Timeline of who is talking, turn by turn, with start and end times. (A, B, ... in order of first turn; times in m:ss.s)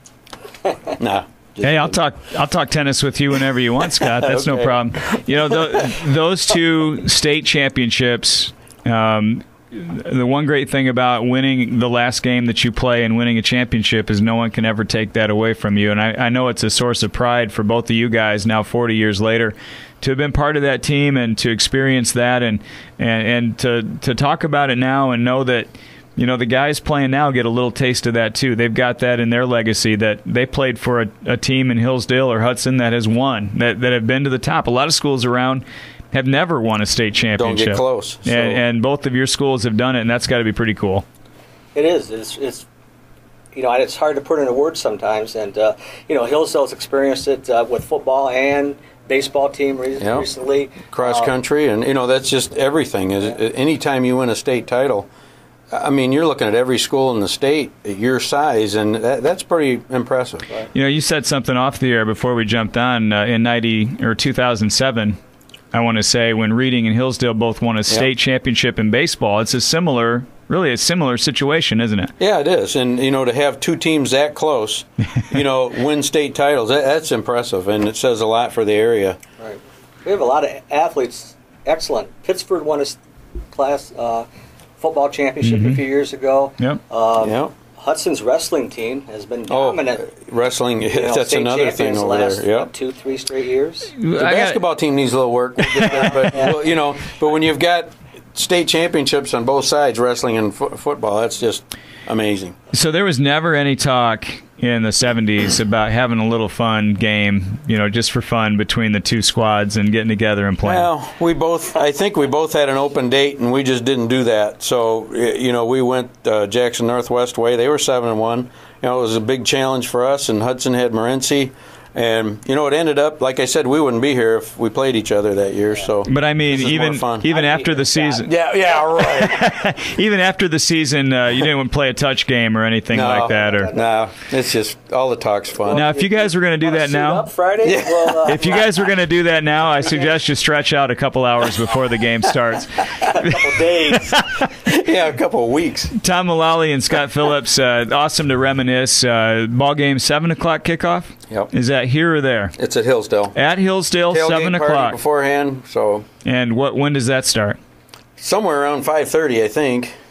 0:01.0-0:02.0 A
0:01.6-0:41.0 B
0:04.0-0:04.9 A
0:37.4-0:38.6 A
0:41.8-0:42.7 C
0:43.5-0:51.3 C
0:50.0-0:50.3 A
0:50.9-0:55.1 A
0:55.7-1:00.5 A
1:00.7-1:05.2 B
1:05.7-1:12.1 B
1:12.2-1:19.2 A
1:19.4-1:23.0 C
1:23.5-1:24.3 C
1:24.8-1:30.0 C
1:25.4-1:25.8 B
1:27.2-1:27.6 A
1:29.5-1:32.7 A
1:30.9-1:34.0 C
1:34.0-1:34.6 B
1:34.2-1:42.6 A
1:35.7-1:36.3 B
1:42.7-1:50.9 B
1:50.6-2:07.3 A
2:06.1-2:08.3 B
2:07.2-2:08.4 C
2:08.3-2:09.4 A
2:09.0-2:13.7 B
2:12.9-2:15.8 A
2:13.2-2:14.1 C
2:15.7-2:18.7 C
2:15.7-2:17.3 B
2:17.6-2:18.7 A
2:18.2-2:24.5 B
2:19.8-2:20.1 C
2:23.1-2:24.2 C
2:24.6-2:25.9 A
2:25.9-2:32.6 B
2:32.6-2:33.4 A
2:33.3-2:35.0 B
2:34.1-2:36.1 A
2:36.2-2:37.6 B
2:38.2-2:39.9 A